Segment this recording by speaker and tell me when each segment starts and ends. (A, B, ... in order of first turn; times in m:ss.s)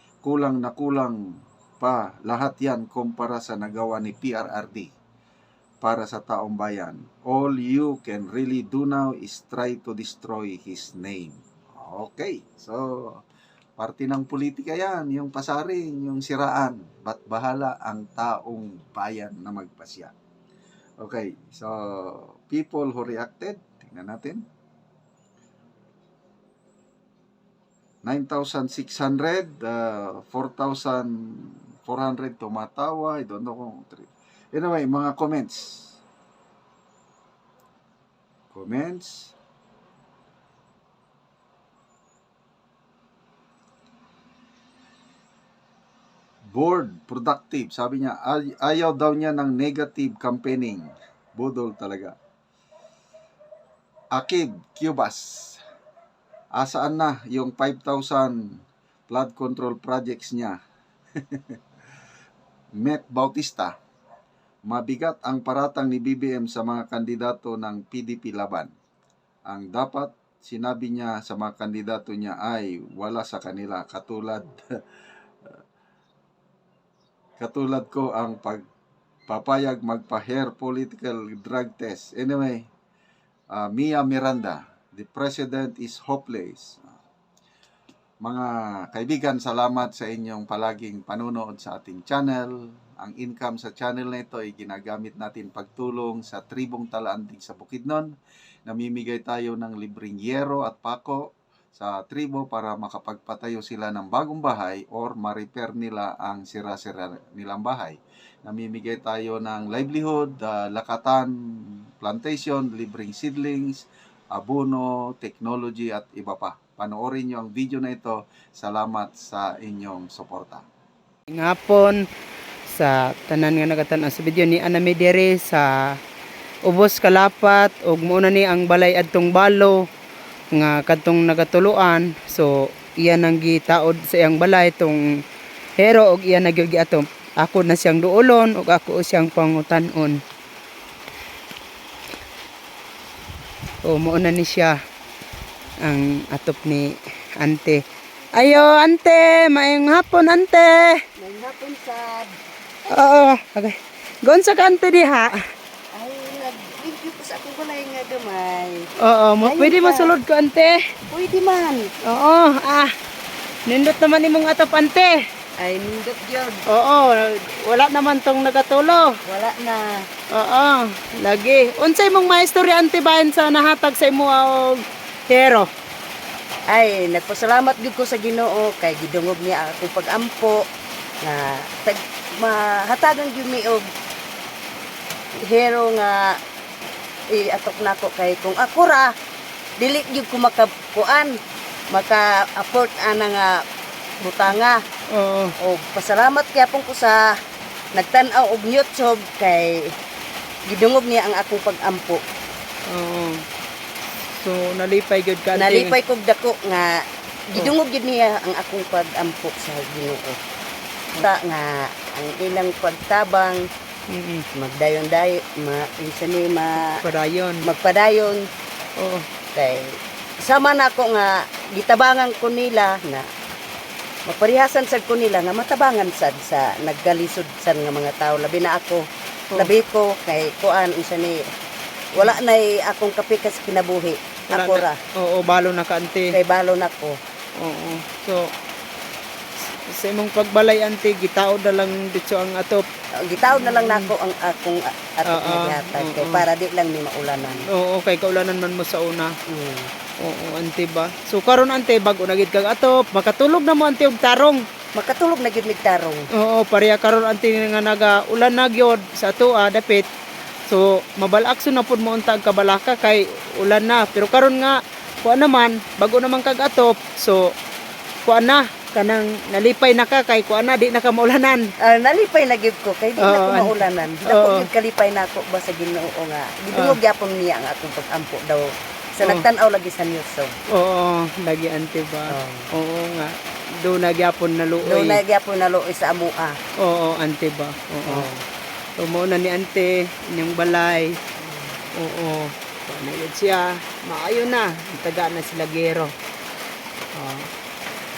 0:00.2-0:04.9 A
0:05.8-0:13.2 A
0:13.8-0:20.1 A
0:21.0-0:24.4 A
0:28.0-0:36.0 A
0:38.5-0:39.3 A
0:46.5-0:52.2 A
0:54.1-0:55.6 A
0:56.6-0:58.4 A
0:59.1-1:00.6 A
1:01.3-1:01.6 A
1:02.8-1:03.8 A
1:04.6-1:08.7 A
1:09.5-1:14.6 A
1:17.4-1:18.6 A
1:19.3-1:22.6 A
1:23.5-1:26.9 A
1:28.2-1:38.1 A
1:38.6-2:00.6 A
2:01.3-2:02.0 B
2:02.7-2:05.7 B
2:06.7-2:09.8 B
2:10.5-2:15.0 B
2:15.8-2:20.2 B
2:23.8-2:24.8 B
2:25.8-2:27.8 B
2:28.3-2:31.0 B
2:31.2-2:32.3 C
2:32.9-2:35.4 B
2:35.9-2:38.9 C
2:39.0-2:40.9 B
2:39.4-2:40.1 C
2:41.1-2:41.9 C
2:42.0-2:42.9 B
2:43.7-2:45.2 B
2:45.6-2:46.6 C
2:46.7-2:49.1 B
2:49.3-2:50.0 C
2:50.3-2:55.7 B
2:56.7-3:00.6 C
3:01.2-3:03.8 C
3:05.4-3:06.4 C
3:07.3-3:09.1 C
3:09.8-3:11.3 C
3:11.9-3:13.6 C
3:14.2-3:14.8 C
3:15.1-3:15.5 B
3:15.6-3:17.3 C
3:17.9-3:19.9 C
3:20.7-3:22.2 C
3:22.9-3:23.4 B
3:24.3-3:26.0 B
3:25.5-3:30.4 C
3:31.2-3:33.6 C
3:34.1-3:34.4 B
3:34.5-3:37.0 C
3:36.8-3:37.7 B
3:37.6-3:38.5 C
3:39.0-3:39.2 B
3:39.5-3:43.3 C
3:44.3-3:51.4 C
3:52.1-3:55.0 C
3:54.5-3:56.3 B
3:56.3-3:57.2 C
3:57.6-3:58.5 B
3:59.8-4:02.8 B
4:03.2-4:07.7 C
4:03.5-4:04.1 B
4:05.3-4:06.4 B
4:07.6-4:09.3 B
4:09.5-4:09.9 C
4:10.2-4:14.6 B
4:14.9-4:16.3 C
4:16.3-4:20.1 B
4:20.7-4:27.5 B
4:28.2-4:31.7 B
4:31.8-4:40.5 C
4:33.2-4:34.7 B
4:36.7-4:37.0 B
4:40.7-4:45.2 B
4:42.3-4:42.7 C
4:44.8-4:46.6 C
4:46.8-4:48.3 B
4:48.0-4:48.4 C
4:49.0-4:51.2 B
4:51.4-4:51.7 C
4:51.9-4:56.1 B
4:57.1-4:57.5 B